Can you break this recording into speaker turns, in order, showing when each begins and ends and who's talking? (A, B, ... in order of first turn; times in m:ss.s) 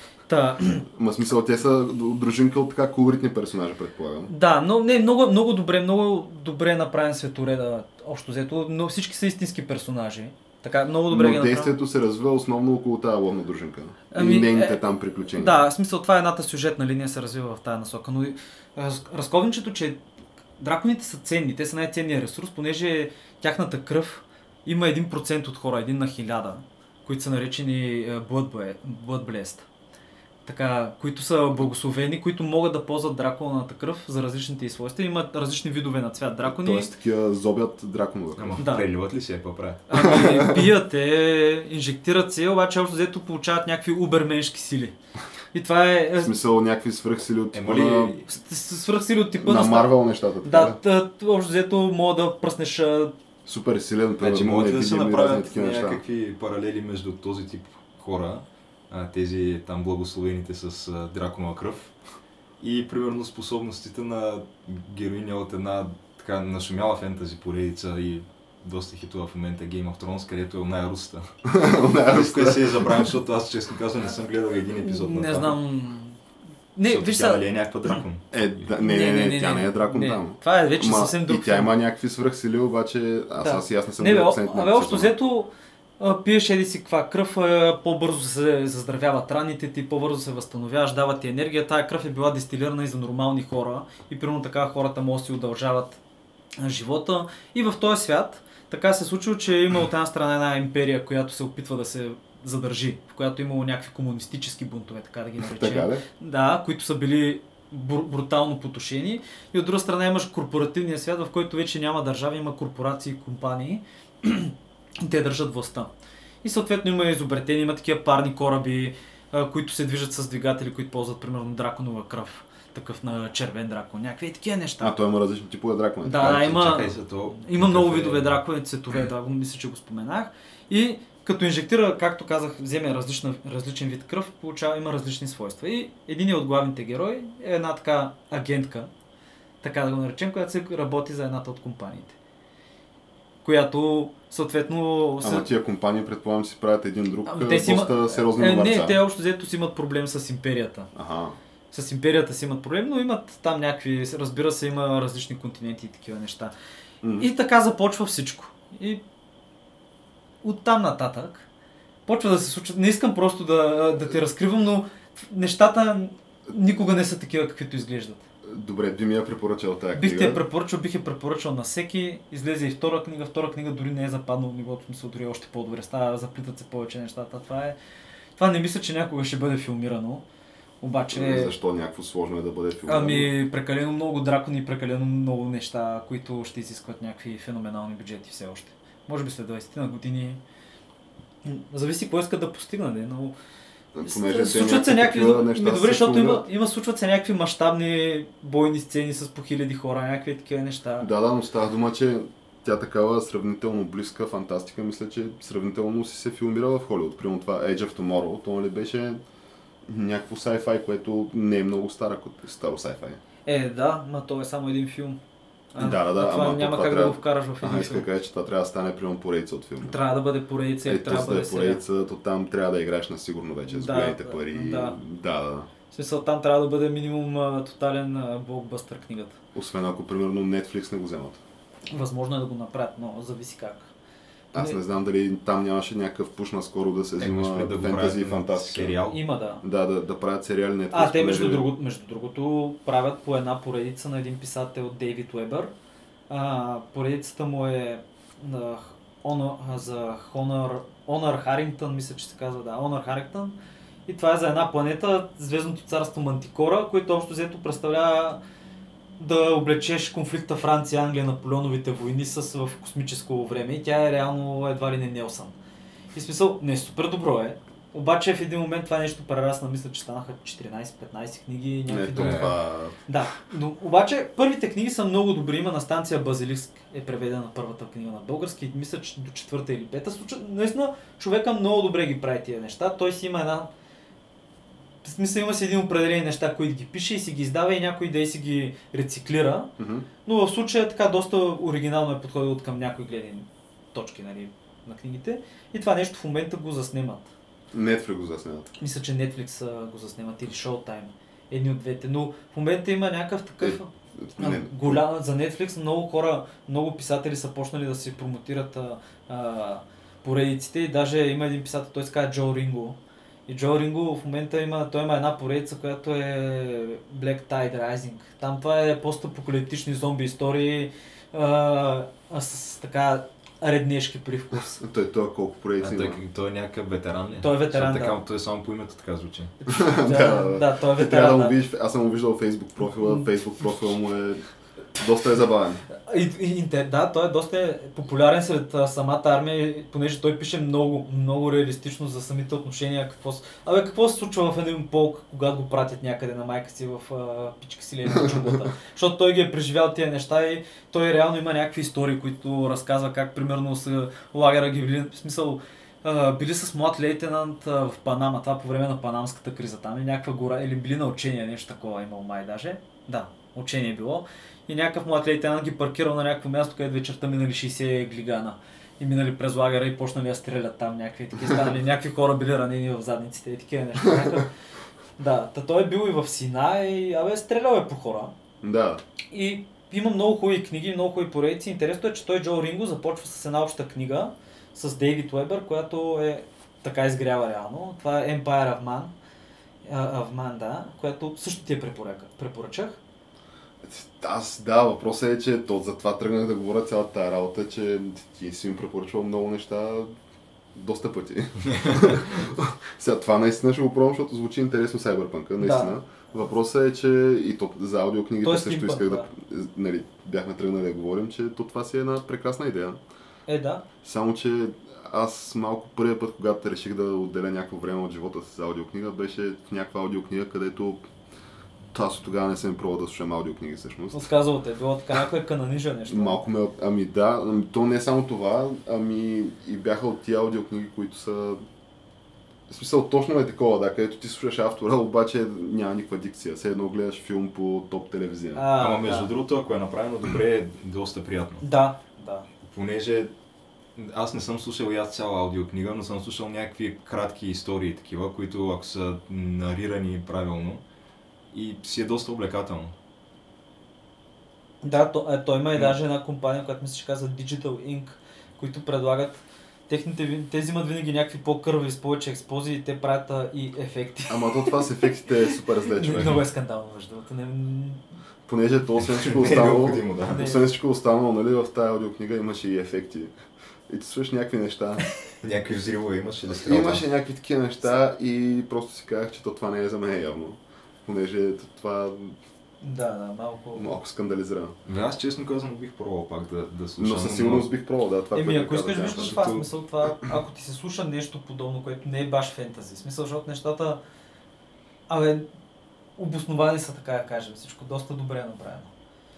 0:00.3-0:00.9 A
0:00.9-0:04.3 B
0:04.3-0:11.8 A
0:11.1-0:15.6 B
0:14.1-0:14.8 A
0:15.3-0:20.0 A
0:20.6-0:29.6 A
0:30.4-0:36.9 A
0:36.4-0:38.6 B
0:38.4-0:39.9 C
0:38.6-0:38.9 A
0:39.9-0:44.9 A
0:40.0-0:40.6 B
0:45.5-0:46.3 A
0:46.2-0:48.2 B
0:47.5-0:48.3 C
0:48.3-0:53.1 A
0:49.4-0:50.8 B
0:53.4-0:56.0 B
0:54.2-1:01.9 C
1:02.6-1:15.6 C
1:11.4-1:13.1 B
1:14.8-1:16.2 A
1:16.7-1:18.0 A
1:16.8-1:18.3 C
1:18.3-1:25.1 B
1:18.8-1:21.7 A
1:23.4-1:36.0 A
1:36.6-1:55.9 A
1:45.4-1:46.0 B
1:56.4-2:04.9 A
2:04.8-2:06.7 B
2:06.0-2:18.9 A
2:06.2-2:08.4 C
2:19.6-2:22.2 A
2:23.4-2:25.5 A
2:25.2-2:29.0 B
2:27.2-2:30.9 A
2:30.9-2:31.4 B
2:31.7-2:36.5 A
2:37.0-2:37.3 B
2:37.2-2:39.0 A
2:40.4-2:41.4 A
2:42.0-2:48.2 A
2:48.4-2:50.4 B
2:49.9-2:57.8 A
2:58.4-3:00.2 A
3:00.8-3:01.5 A
3:01.1-3:03.3 B
3:02.8-3:10.4 A
3:11.4-3:13.3 A
3:13.9-3:16.4 B
3:14.0-3:21.1 A
3:21.0-3:29.2 B
3:29.9-3:33.2 B
3:33.4-3:35.2 A
3:35.7-3:38.1 A
3:35.8-3:39.9 B
3:39.8-3:41.8 A
3:40.8-3:45.7 B
3:43.7-3:45.0 A
3:45.9-3:49.4 A
3:49.5-3:51.4 B
3:51.9-3:53.9 A
3:54.5-3:59.0 B
3:57.2-3:59.2 C
3:59.1-3:59.6 A
3:59.6-4:01.6 B
4:00.9-4:05.7 A
4:06.3-4:13.6 A
4:14.1-4:18.4 A
4:19.2-4:25.5 A
4:26.1-4:43.7 A
4:31.9-4:33.0 B
4:32.2-4:32.5 C
4:45.0-4:49.7 A
4:49.8-4:50.1 B
4:50.2-4:57.3 A
4:57.7-4:58.7 B
4:58.8-5:24.8 A
5:03.6-5:05.0 B
5:24.8-5:26.2 B
5:25.8-5:29.5 C
5:27.4-5:28.2 A
5:29.6-5:31.6 A
5:29.7-5:34.4 B
5:35.0-5:35.8 B
5:36.0-6:14.5 A
5:48.2-5:48.5 B
6:15.2-6:18.3 A
6:18.6-6:19.0 B
6:19.3-6:29.1 A
6:29.8-6:33.0 A
6:33.8-6:40.1 B
6:40.7-6:53.0 B
6:45.6-6:46.0 A
6:48.4-6:49.3 A
6:53.5-6:53.8 A
6:54.0-7:01.0 B
7:01.9-7:04.3 B
7:04.1-7:06.4 A
7:06.1-7:11.6 B
7:12.7-7:18.7 B
7:18.5-7:19.3 A
7:18.8-7:21.6 C
7:21.6-7:22.5 A
7:22.6-7:23.3 C
7:24.0-7:30.8 C
7:31.5-7:32.9 C
7:34.8-7:48.0 A
7:44.3-7:46.4 B
7:48.5-7:53.3 B
7:49.0-7:50.5 C
7:50.3-7:50.7 A
7:53.9-7:55.0 B
7:55.4-7:57.0 C
7:56.5-8:02.4 B
8:02.8-8:03.9 A
8:03.7-8:04.7 B
8:04.8-8:07.7 C
8:07.0-8:09.5 B
8:08.3-8:14.0 A
8:09.1-8:09.7 C
8:15.1-8:15.5 A
8:16.2-8:18.9 A